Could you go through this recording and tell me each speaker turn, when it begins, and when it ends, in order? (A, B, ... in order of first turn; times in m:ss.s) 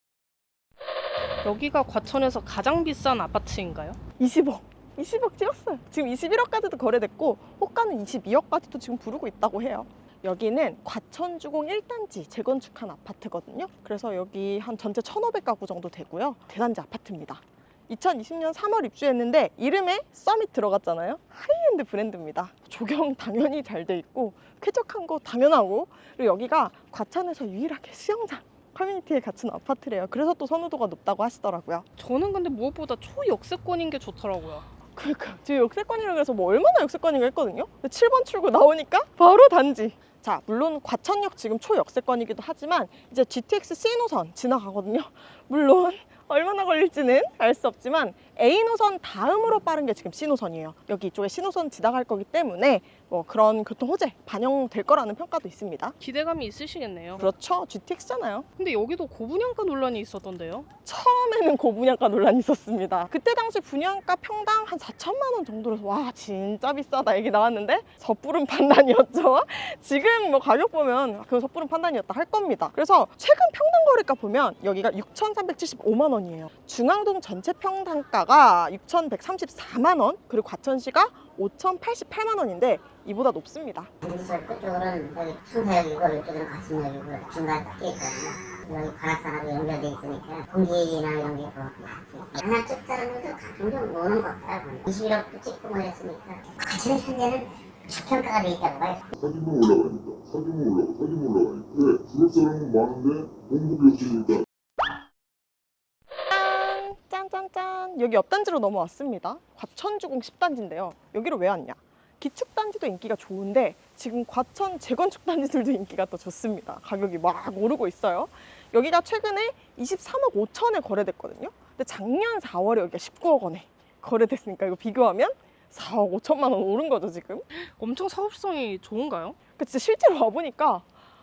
0:01.4-0:04.0 A
0:04.2-0:31.8 B
0:32.0-0:34.6 A
0:34.9-0:56.0 B
0:56.0-0:57.3 A
0:57.2-0:58.5 B
0:58.6-1:00.7 A
1:00.8-1:23.9 B
1:24.0-1:39.0 C
1:39.1-1:44.4 D
1:46.3-2:07.4 B
2:07.6-2:09.4 A
2:09.6-2:10.8 B